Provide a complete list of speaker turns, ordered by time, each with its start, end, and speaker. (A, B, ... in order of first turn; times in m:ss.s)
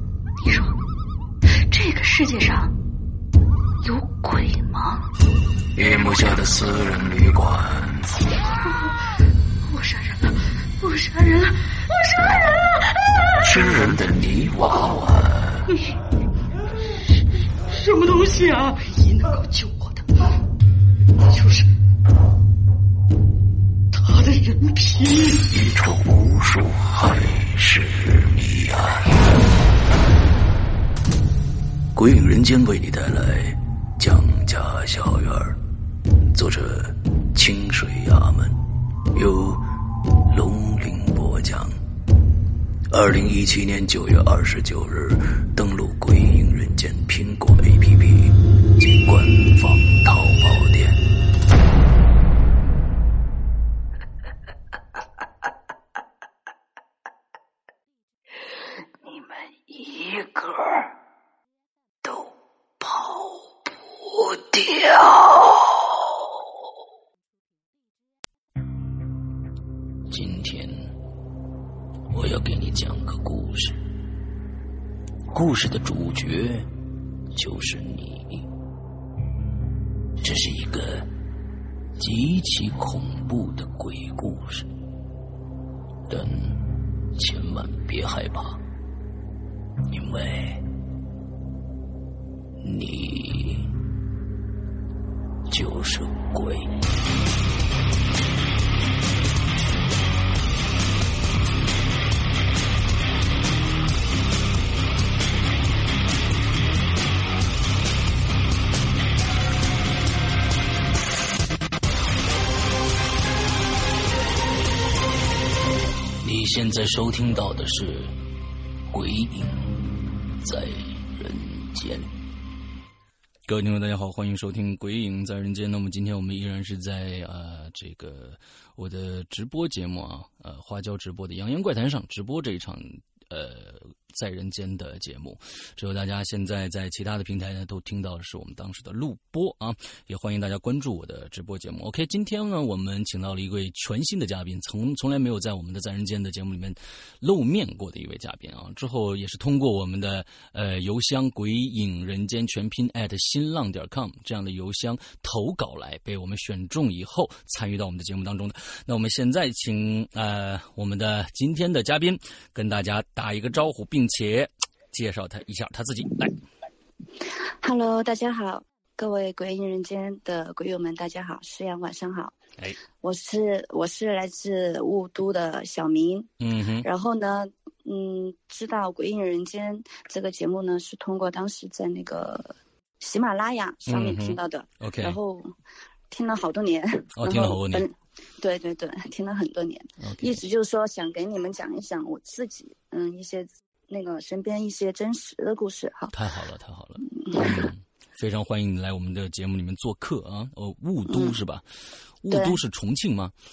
0:00.4-0:00.8 A
0:01.5-0:02.8 A
0:03.8-0:05.1 A
0:05.7-0:08.2 B
0:08.5-0:13.9 A
0:13.4-0:15.6 B
0:15.7-0:16.0 A
0:16.9-0:20.3 A
0:21.2-0:21.7 A
0:23.9-0:25.5 A
0:25.5-0:29.2 B
0:31.9-0:35.6 B
0:36.3-0:38.6 B
0:39.1-0:39.6 B
0:40.3-0:41.8 B
0:42.9-0:51.0 B
0:59.7-1:00.7 B
1:02.8-1:03.3 B
1:04.0-1:05.6 B
1:10.1-1:10.9 B
1:12.1-1:13.8 B
1:15.3-1:16.7 B
1:17.3-1:18.5 B
1:20.2-1:21.1 B
1:22.0-1:24.7 B
1:26.1-1:28.6 B
1:29.9-1:30.7 B
1:32.6-1:33.8 B
1:35.5-1:36.8 B
1:56.2-1:58.2 B
1:58.9-2:02.2 B
2:03.4-2:46.4 B
2:47.6-2:52.3 C
2:53.0-2:56.3 C
2:56.4-2:56.9 B
2:56.8-3:05.5 C
3:03.8-3:05.2 B
3:06.1-3:16.1 C
3:07.2-3:07.9 B
3:10.0-3:10.4 B
3:16.1-3:21.6 B
3:17.0-3:17.7 C
3:21.1-3:21.4 C
3:22.2-3:23.3 B
3:22.3-3:22.6 C